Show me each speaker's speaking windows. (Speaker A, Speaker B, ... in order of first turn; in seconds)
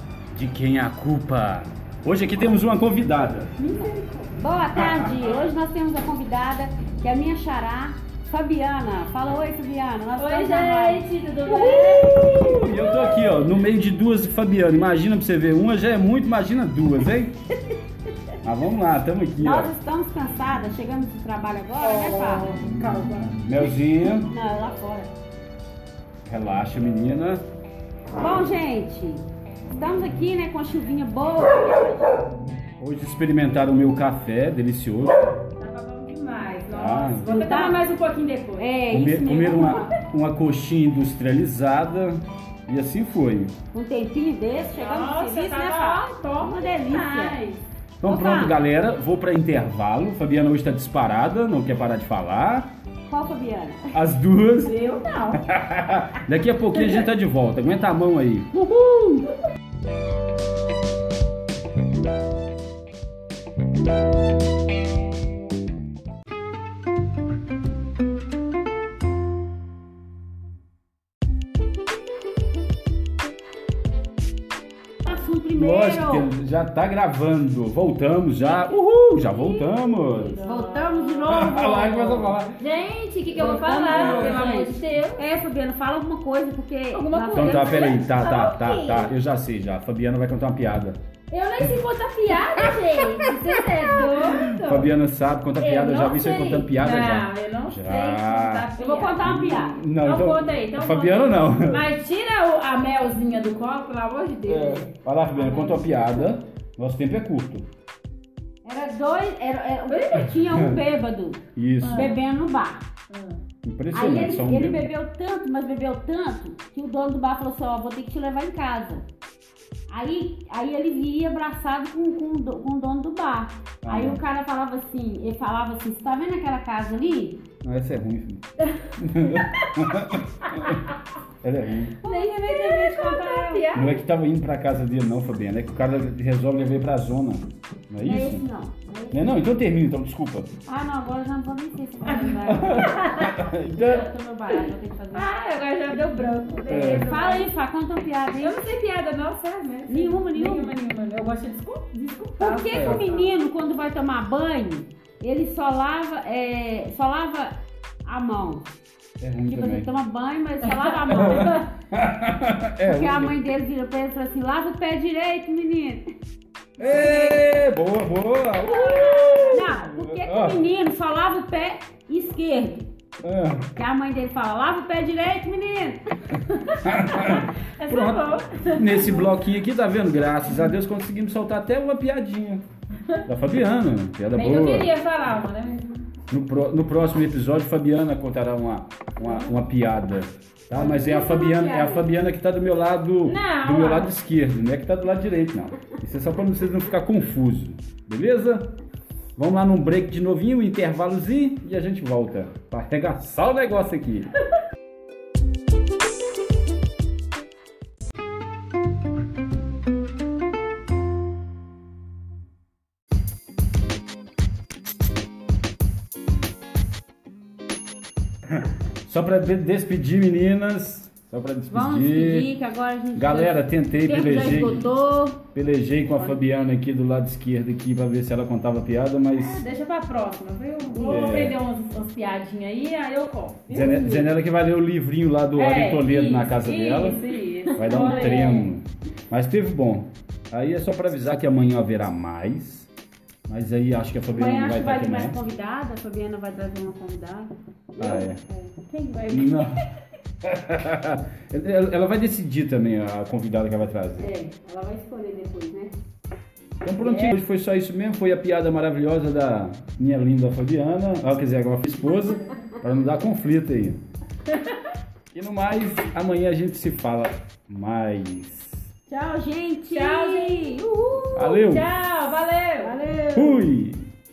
Speaker A: 0.3-3.5, 4.8-5.1, 12.1-17.3, 18.4-19.7, 23.4-24.3, 26.2-27.4, 32.8-35.2, 36.7-37.3, 38.9-43.5, 48.0-52.7, 53.9-54.7, 55.4-58.6, 75.5-80.4, 81.3-82.5, 83.9-84.4, 87.3-91.0, 94.4-98.7, 99.2-101.8, 104.5-107.7, 110.4-110.8, 111.5-112.2, 113.6-114.8, 123.8-124.2, 127.6-128.4, 129.0-130.8, 131.4-132.0, 133.7-138.4, 139.1-140.5, 142.5-144.1, 146.7-147.2, 152.7-153.1, 159.2-159.9, 161.1-163.4, 166.8-170.6, 173.2-173.7, 176.8-182.6, 183.2-184.9, 186.3-198.7, 199.3-204.3, 218.6-222.5, 223.1-224.8, 225.5-229.6, 231.0-231.6, 233.7-237.2, 237.8-242.9, 243.5-245.4, 248.0-248.4, 249.3-249.8, 250.4-254.3, 256.8-264.0, 265.3-268.9, 271.3-272.1, 273.3-274.1
Speaker B: 3.6-4.3, 10.2-12.3, 21.8-23.4, 35.6-38.7, 44.7-47.6, 54.6-55.4, 79.9-81.2, 82.6-85.2, 86.9-89.1, 91.3-94.9, 95.6-99.2, 100.0-104.9, 109.9-110.4, 111.8-112.2, 113.1-113.4, 128.6-129.9, 130.4-130.9, 132.0-134.0, 142.0-143.3, 145.1-147.5, 148.4-153.3, 160.6-161.7, 168.7-169.7, 176.5-179.4, 184.3-186.0, 189.2-189.5, 193.2-194.1, 229.4-234.2, 235.5-238.7, 248.8-249.6, 257.0-257.4, 264.5-264.7, 269.9-270.8, 271.4-273.0
Speaker C: 3.7-13.3, 19.4-22.5, 23.6-25.1, 28.2-32.1, 37.3-37.8, 38.6-39.9, 43.7-47.4, 48.0-48.5, 53.0-53.8, 58.6-59.2, 75.0-76.3, 80.4-82.4, 83.3-88.0, 98.8-99.8, 105.4-105.8, 108.6-111.4, 111.9-112.8, 113.9-119.0, 119.9-127.4, 132.0-133.7, 138.0-139.2, 140.7-145.3, 146.7-148.6, 149.9-150.8, 152.4-157.5, 158.0-158.7, 159.4-161.6, 162.8-166.0, 166.8-167.1, 168.7-172.9, 173.8-176.0, 190.7-192.1, 221.7-225.4, 230.9-231.5, 237.8-238.7, 244.3-247.5, 248.0-248.8, 254.2-255.9, 269.1-271.5, 272.8-273.7